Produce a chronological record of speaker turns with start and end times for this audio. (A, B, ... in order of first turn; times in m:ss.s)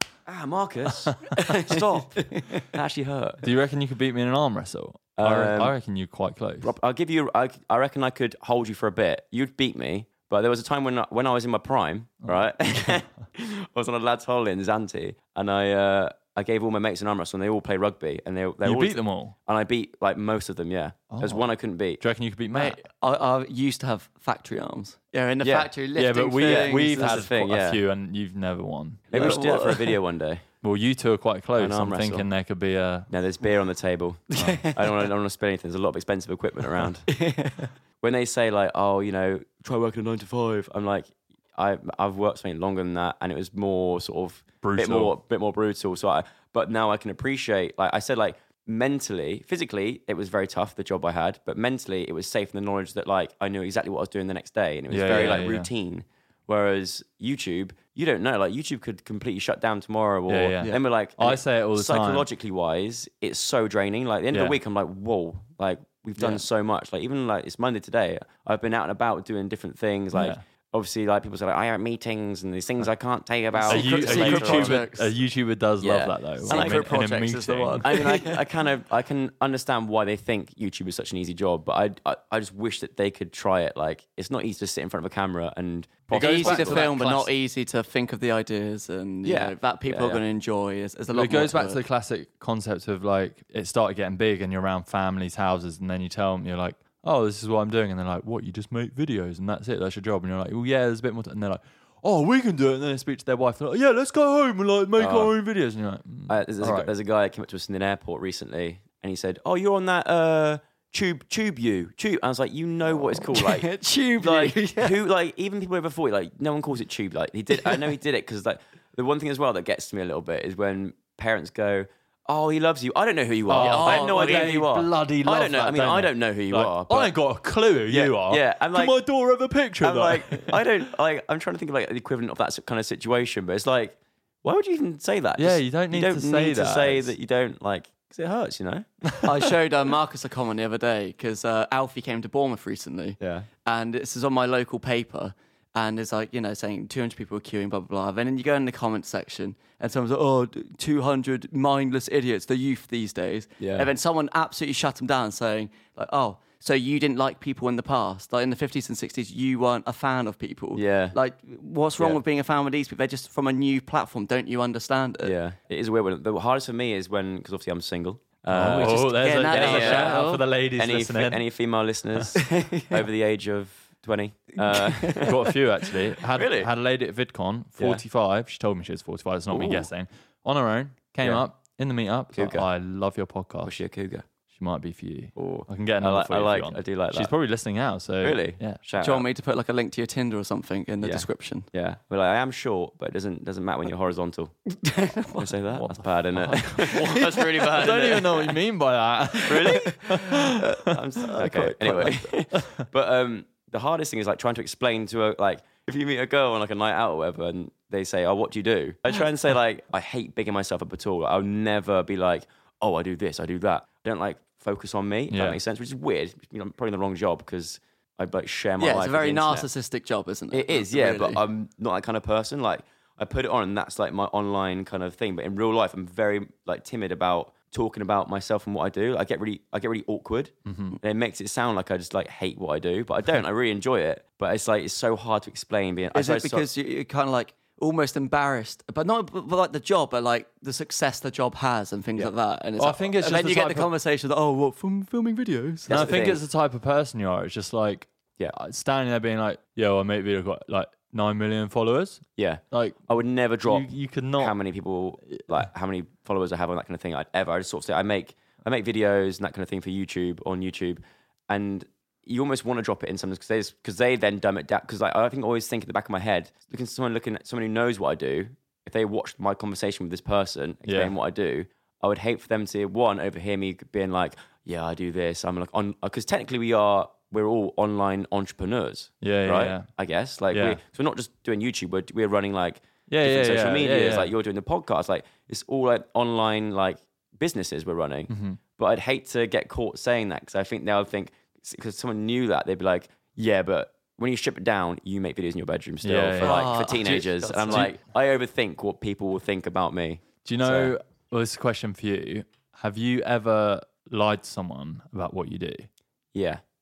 0:00.3-0:03.4 A
0:01.3-0:02.6 B
0:03.4-0:06.7 C
0:05.2-0:05.7 A
0:06.6-0:22.0 A
0:12.2-0:12.9 C
0:18.6-0:19.3 C
0:21.1-0:21.4 C
0:22.0-0:22.8 C
0:22.5-0:27.2 B
0:25.4-0:25.7 A
0:26.0-0:29.4 C
0:26.4-0:27.8 A
0:29.1-0:30.0 B
0:29.1-0:30.4 A
0:30.6-0:33.1 C
0:31.6-0:32.3 A
0:33.1-0:37.1 A
0:34.3-0:34.9 B
0:34.4-0:34.7 C
0:37.1-0:37.7 B
0:38.0-1:14.8 A
0:44.6-0:45.2 C
0:54.9-0:55.7 C
0:55.1-0:55.4 B
1:00.3-1:02.3 C
1:06.2-1:06.4 B
1:10.1-1:10.4 C
1:13.5-1:15.1 B
1:13.7-1:17.9 C
1:15.8-1:16.9 A
1:16.4-1:18.4 B
1:17.8-1:26.9 A
1:26.1-1:27.3 C
1:26.1-1:31.8 B
1:29.2-1:30.2 A
1:31.1-1:46.9 C
1:45.0-1:45.3 A
1:46.3-2:07.2 A
1:53.3-1:55.0 B
2:03.5-2:10.6 C
2:03.5-2:04.6 B
2:07.9-2:09.0 A
2:09.8-2:19.0 A
2:15.4-2:17.1 C
2:19.2-2:45.3 B
2:23.2-2:23.5 A
2:33.6-2:33.9 A
2:40.8-2:41.2 A
2:45.2-2:50.2 A
2:48.5-2:51.4 C
2:48.8-2:50.4 B
2:50.7-2:55.4 A
2:52.4-2:53.0 B
2:54.6-2:55.3 B
2:55.2-3:03.8 C
2:56.3-2:56.7 A
2:59.5-2:59.9 A
3:02.3-3:02.7 A
3:03.6-3:04.3 A
3:04.5-3:08.8 C
3:05.4-3:07.3 A
3:08.2-3:09.3 A
3:09.0-3:11.7 B
3:11.0-3:14.6 A
3:14.8-3:15.5 B
3:15.4-3:18.5 A
3:15.8-3:17.2 C
3:16.9-3:17.4 B
3:17.8-3:20.8 C
3:19.4-3:20.0 A
3:19.8-3:22.2 B
3:20.9-3:39.7 A
3:21.4-3:21.8 C
3:35.3-3:35.6 C
3:38.8-3:41.4 B
3:40.5-3:56.7 A
3:50.6-3:51.0 C
3:56.1-4:06.1 B
4:02.2-4:03.9 C
4:05.9-4:06.4 A
4:05.9-4:13.1 C
4:12.4-5:00.9 A
4:13.6-4:14.6 C
4:30.9-4:31.1 C
4:39.2-4:39.9 C
4:40.5-4:40.8 C
4:43.1-4:44.3 C
4:48.3-4:48.6 C
4:56.0-4:57.9 C
4:56.4-4:57.9 B
5:00.4-5:05.9 C
5:06.3-5:06.6 A